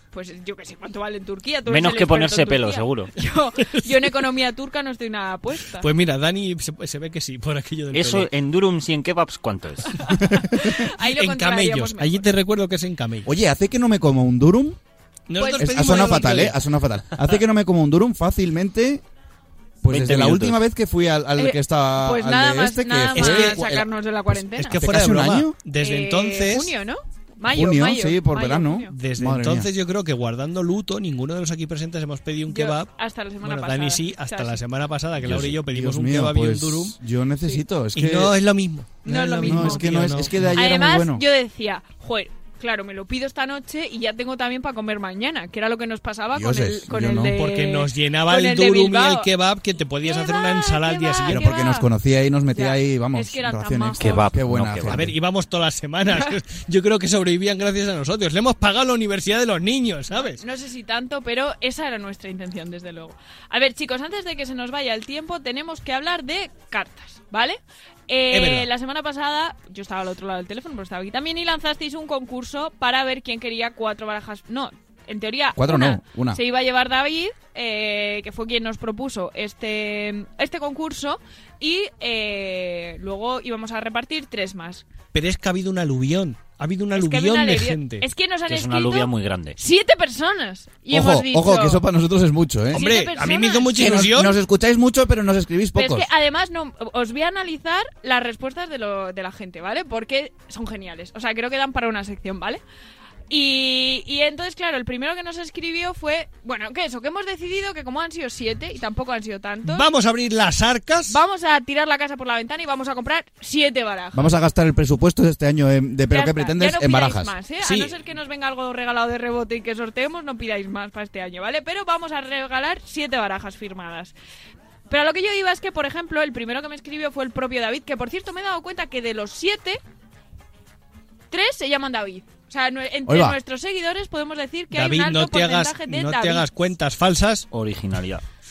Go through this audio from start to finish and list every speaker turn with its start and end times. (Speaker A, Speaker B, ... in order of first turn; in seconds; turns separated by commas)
Speaker A: 0.1-5.9, Speaker B: 1.7-3.1, Speaker C: 3.8-4.2, Speaker C: 5.8-8.3, Speaker B: 7.9-10.1, Speaker A: 10.1-12.3, Speaker D: 10.2-10.7, Speaker C: 10.6-13.3, Speaker D: 13.2-14.8, Speaker C: 15.3-16.6, Speaker A: 15.4-16.3, Speaker D: 15.6-19.0, Speaker D: 19.8-25.6, Speaker B: 19.9-20.6, Speaker A: 21.4-24.8, Speaker C: 23.1-23.6, Speaker C: 24.6-26.7, Speaker A: 25.8-28.9, Speaker D: 27.5-29.7, Speaker C: 28.9-32.9, Speaker A: 32.5-34.6, Speaker C: 33.4-37.0, Speaker D: 35.2-38.4, Speaker C: 37.9-40.6, Speaker A: 39.0-49.3, Speaker D: 39.4-41.2, Speaker D: 46.3-47.3, Speaker C: 47.3-51.5, Speaker A: 50.0-51.9, Speaker D: 51.3-55.1, Speaker A: 52.5-54.3, Speaker B: 54.0-55.1, Speaker C: 54.9-60.4, Speaker A: 60.1-84.8, Speaker C: 68.3-68.7, Speaker D: 75.5-76.4, Speaker C: 85.1-88.0, Speaker A: 86.9-91.8, Speaker B: 88.5-89.6, Speaker D: 90.9-92.8, Speaker A: 92.7-94.3, Speaker C: 92.7-94.3, Speaker D: 93.7-96.1, Speaker A: 95.8-102.6, Speaker A: 103.3-109.9, Speaker C: 109.7-111.2, Speaker A: 111.1-114.3, Speaker D: 114.1-117.3, Speaker A: 116.1-124.1, Speaker C: 117.6-117.9, Speaker A: 124.9-129.8, Speaker A: 131.3-136.4, Speaker D: 133.1-133.4, Speaker C: 134.7-137.5, Speaker B: 137.5-138.2